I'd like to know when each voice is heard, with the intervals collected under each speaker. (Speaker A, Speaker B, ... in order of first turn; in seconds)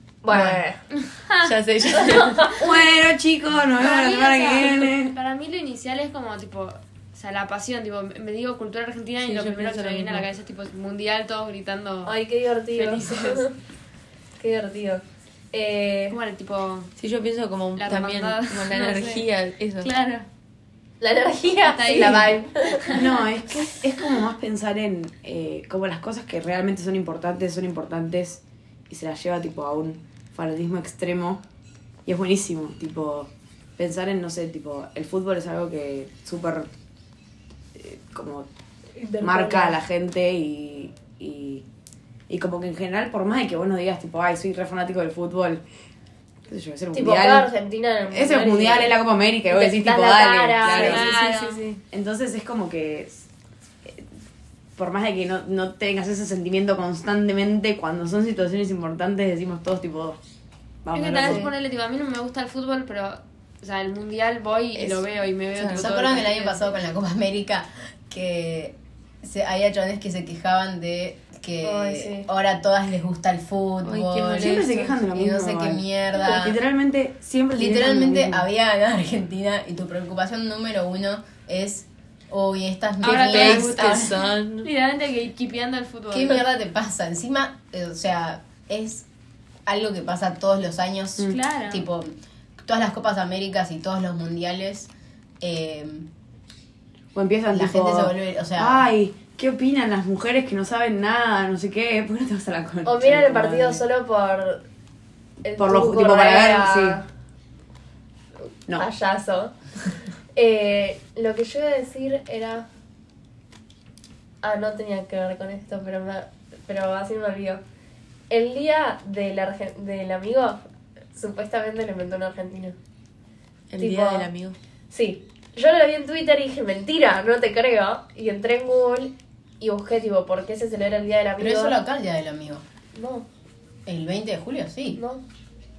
Speaker A: 0.2-0.8, 1.9-2.6, 12.1-13.6, 14.4-16.2, 21.0-23.0, 38.9-39.8, 46.9-51.8, 61.2-61.5, 71.6-72.3, 102.8-104.6, 105.4-107.0, 108.7-109.5, 110.3-112.7, 114.4-117.6, 118.3-120.6, 121.1-122.8, 123.8-124.3, 124.9-131.8, 132.9-133.2, 134.9-135.2
Speaker B: 0.3-0.6, 1.4-2.6, 9.2-10.3, 17.0-19.9, 64.7-65.0, 65.5-65.8, 73.8-75.0, 83.0-84.7, 123.7-124.6
Speaker C: 0.9-1.5, 3.8-12.1, 12.7-13.5, 16.1-16.9, 17.8-19.2, 19.8-20.3, 21.7-23.2, 50.6-51.7, 60.9-66.7, 83.0-86.4, 91.2-91.8
Speaker D: 2.6-5.1, 22.9-31.4, 32.0-36.7, 37.7-38.5, 39.2-41.6, 42.3-45.6, 46.5-47.5, 48.0-51.1, 51.9-53.2, 54.8-60.2, 60.8-61.5, 74.2-78.5, 97.1-103.8, 105.6-107.0
Speaker E: 65.7-76.6, 77.5-84.0, 86.1-89.0, 89.7-92.1, 92.6-96.1, 97.5-98.9, 131.4-132.6, 133.8-135.0